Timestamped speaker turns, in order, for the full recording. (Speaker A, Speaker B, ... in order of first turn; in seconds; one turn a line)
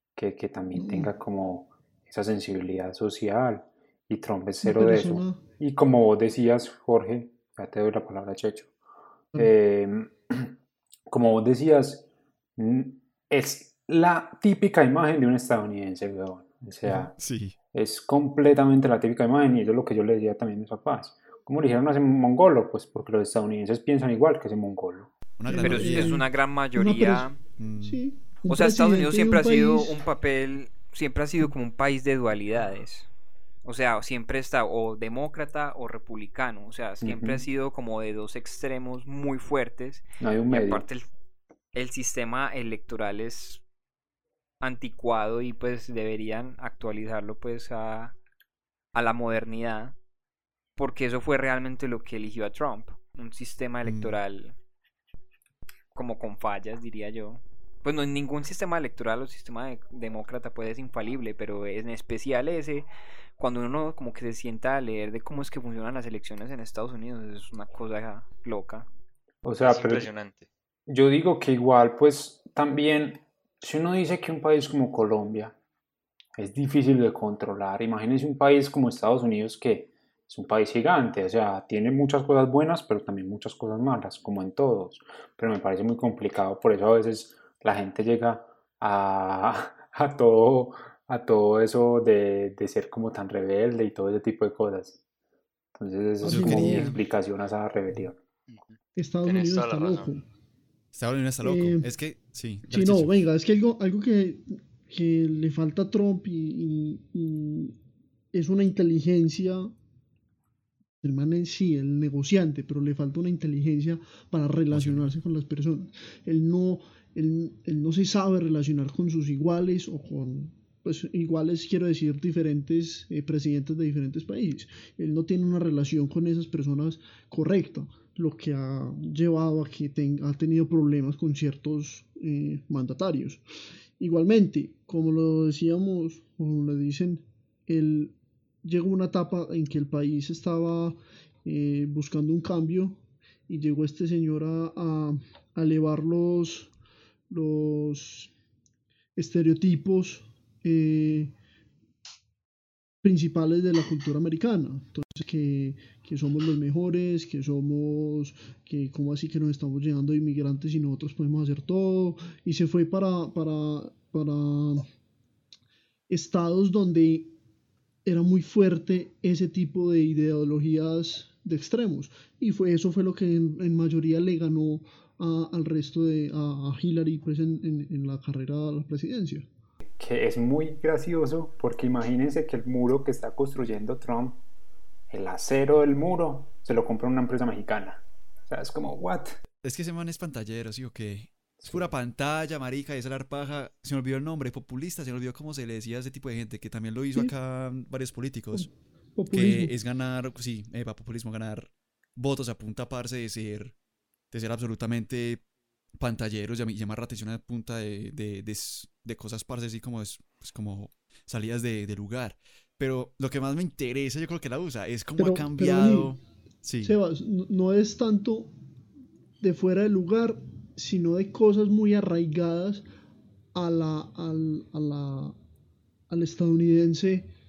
Speaker A: 0.1-8.7
Speaker B: 0.8-1.1
Speaker B: 4.6-5.4
Speaker A: 9.3-10.5
Speaker A: 11.1-17.1
Speaker C: 16.9-17.6
Speaker A: 17.7-25.1
Speaker C: 25.4-26.2
Speaker B: 25.5-27.3
Speaker D: 25.5-27.4
Speaker C: 27.6-28.0
Speaker B: 27.8-30.0
Speaker D: 28.5-33.1
Speaker D: 33.6-41.1
Speaker A: 37.0-37.4
Speaker A: 40.2-40.9
Speaker D: 41.7-43.6
Speaker D: 44.6-48.1
Speaker D: 48.9-50.0
Speaker D: 50.8-54.6
Speaker C: 53.8-54.2
Speaker D: 55.9-68.9
Speaker A: 69.4-70.1
Speaker E: 69.6-70.5
Speaker A: 70.9-75.5
Speaker A: 76.4-95.0
Speaker A: 95.8-98.2
Speaker C: 96.2-97.0
Speaker B: 96.2-96.9
Speaker E: 98.5-100.1
Speaker B: 99.0-100.2
Speaker C: 100.9-103.1
Speaker B: 101.4-101.9
Speaker B: 102.7-107.7
Speaker B: 108.3-109.7
Speaker B: 111.0-133.4
Speaker C: 114.7-115.1
Speaker B: 134.0-146.7
Speaker B: 147.3-148.3
Speaker B: 149.2-151.3
Speaker B: 153.0-164.9
Speaker B: 166.1-167.3
Speaker B: 168.0-179.5
Speaker A: 179.8-184.4
Speaker A: 185.1-189.4
Speaker C: 189.6-198.7
Speaker A: 191.6-191.9
Speaker B: 198.5-199.7
Speaker C: 199.3-203.8
Speaker C: 204.3-205.4
Speaker C: 206.0-217.0
Speaker B: 215.2-216.1
Speaker B: 216.8-218.5
Speaker B: 219.4-222.9
Speaker B: 223.6-225.4
Speaker B: 226.1-227.3